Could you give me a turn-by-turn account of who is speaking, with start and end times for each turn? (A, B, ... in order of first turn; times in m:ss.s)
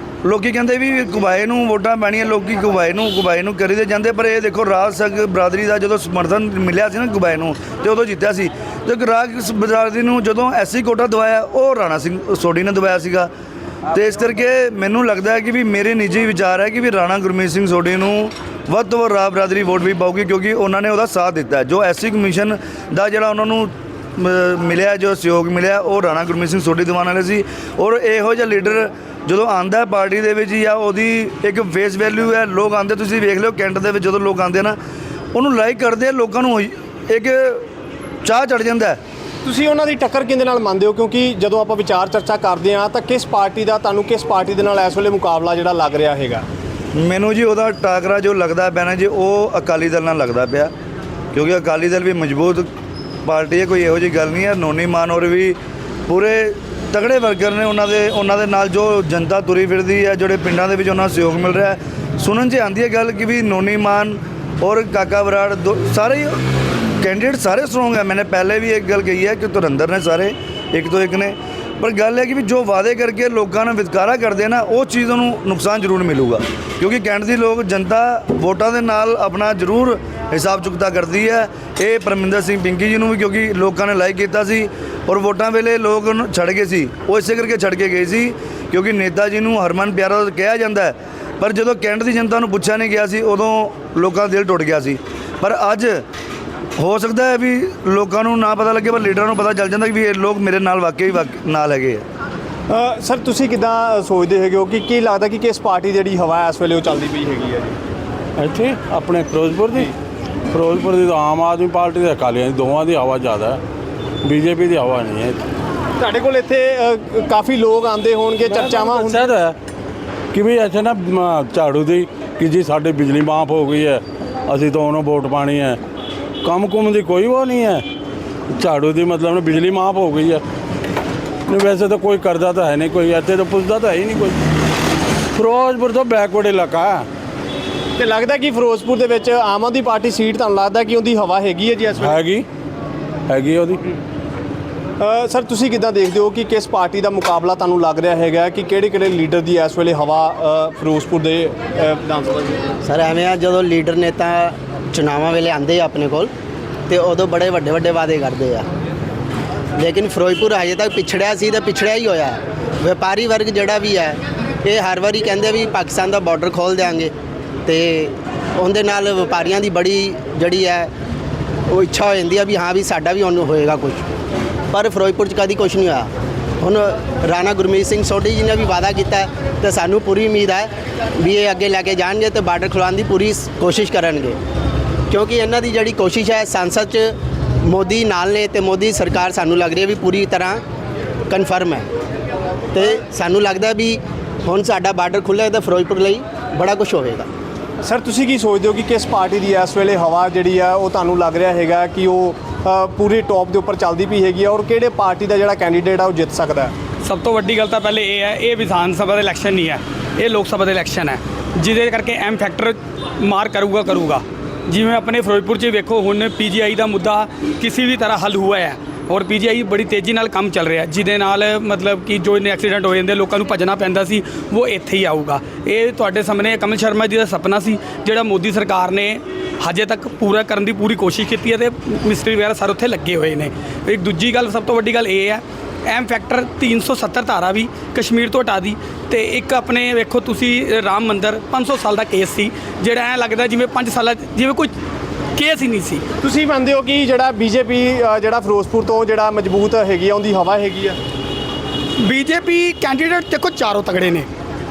0:00.2-0:13.3 A
0:13.9-0:34.8 A
0:35.3-0:37.7 A
0:38.2-0:39.0 A
0:39.4-0:46.4 B
0:46.9-0:50.7 A
0:51.3-0:52.7 A
0:53.2-1:06.4 A
1:07.0-1:36.0 A
1:36.8-1:42.0 A
1:42.7-1:47.8 B
1:48.4-1:49.9 C
1:50.5-1:53.6 C
1:54.2-1:55.4 C
1:56.0-1:59.3 B
1:58.4-1:59.6 C
2:00.3-2:05.8 C
2:06.4-2:07.8 C
2:08.5-2:10.4 C
2:11.5-2:14.4 C
2:15.3-2:17.0 C
2:18.0-2:22.2 B
2:22.0-2:22.4 C
2:23.3-2:23.8 C
2:25.0-2:32.6 B
2:32.8-2:36.3 D
2:36.9-2:38.6 D
2:39.8-2:47.1 D
2:47.6-2:50.9 D
2:51.7-2:54.0 D
2:54.7-2:56.1 D
2:56.6-3:04.4 D
3:05.1-3:10.6 D
3:11.3-3:11.8 D
3:12.7-3:17.2 D
3:17.8-3:26.7 B
3:27.0-4:04.7 E
4:05.3-4:06.0 E
4:06.2-4:11.0 B
4:12.0-4:14.3 E